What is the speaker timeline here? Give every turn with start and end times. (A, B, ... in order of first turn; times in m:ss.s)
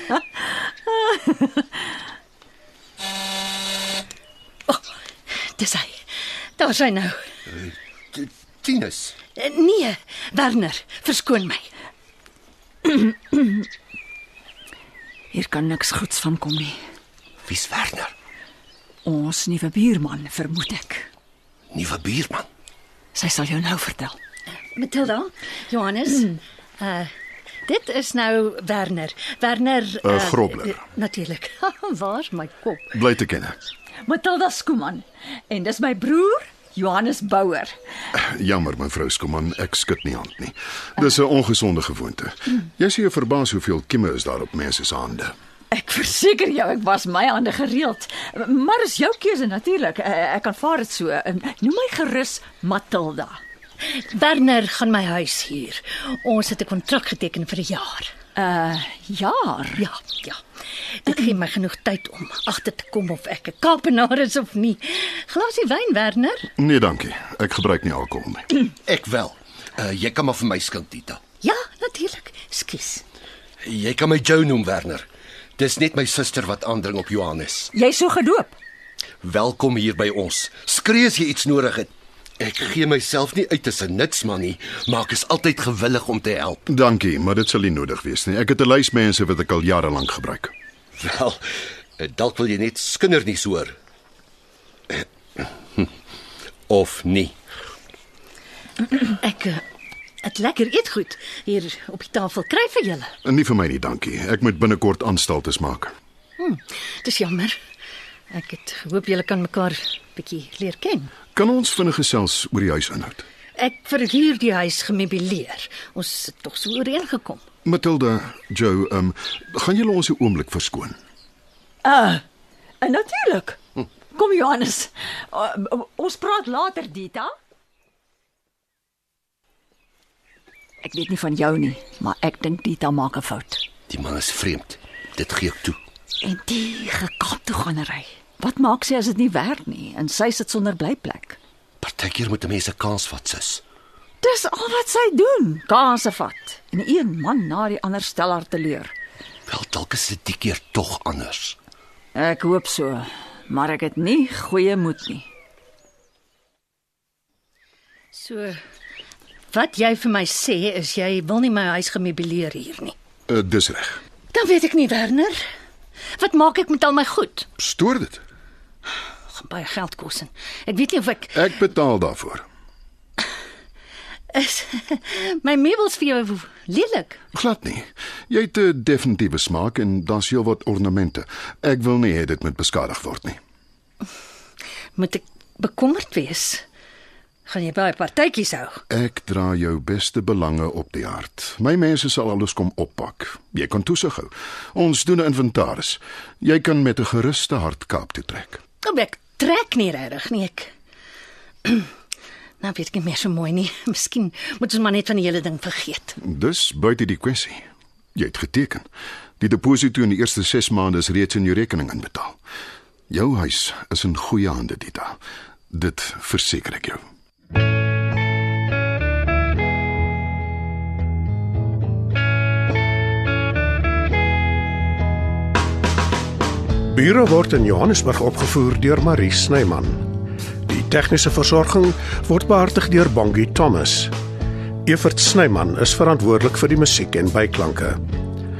0:01.0-0:01.5 A
0:05.6-0:06.0 B
0:06.6-0:07.2 B
0:07.5-0:09.2 C
0:09.4-0:11.7 B
0:12.8-0:13.6 A
0:15.3-0:16.8 A
0:17.4-0:18.1 C
0:19.0-0:21.1 A
0:21.7-0:22.5 C
0:23.1-0:24.2 A
0:24.7-0:27.1 B
0:27.6-0:32.9 B
0:30.0-0:30.8 D
0:32.9-0:33.6 D
0:34.0-0:37.7 A
0:38.1-0:45.3 D
0:45.7-0:53.4 A
0:53.8-0:58.1 B
0:58.4-0:59.8 A
0:59.8-1:00.4 B
1:01.0-1:06.5 B
1:06.6-1:08.5 D
1:08.7-1:11.2 C
1:11.4-1:13.0 B
1:13.6-1:15.0 C
1:15.6-1:17.7 C
1:17.7-1:18.6 A
1:19.2-1:26.6 C
1:26.7-1:30.5 D
1:31.0-1:31.4 C
1:32.0-1:33.7 C
1:34.9-1:35.9 C
1:36.7-1:37.3 C
1:39.0-1:39.6 B
1:40.2-1:43.1 B
1:43.2-1:45.9 D
1:46.4-1:47.5 B
1:48.3-1:51.1 B
1:51.3-1:53.2 D
1:53.6-1:57.4 B
1:57.6-2:01.0 D
2:01.8-2:02.2 A
2:02.8-2:03.6 A
2:04.1-2:07.3 A
2:10.8-2:13.6 A
2:13.9-2:15.8 C
2:16.2-2:21.4 A
2:21.8-2:23.6 C
2:24.2-2:28.9 A
2:29.5-2:31.6 C
2:32.1-2:35.3 A
2:38.1-2:38.6 B
2:39.5-2:42.9 B
2:43.3-2:44.0 D
2:44.3-2:45.4 B
2:46.2-2:47.5 B
2:47.6-2:48.2 D
2:49.3-2:51.4 B
2:51.3-2:52.4 D
2:54.3-2:57.2 B
2:57.3-3:03.4 D
3:05.0-3:06.6 B
3:07.4-3:08.8 B
3:08.9-3:18.6 D
3:18.8-3:20.7 B
3:21.6-3:21.9 B
3:22.6-3:26.2 B
3:26.2-3:28.8 D
3:29.4-3:32.4 D
3:33.1-3:35.2 D
3:35.7-3:37.0 D
3:46.9-3:50.0 E
3:50.7-3:54.1 E
3:54.8-3:58.0 E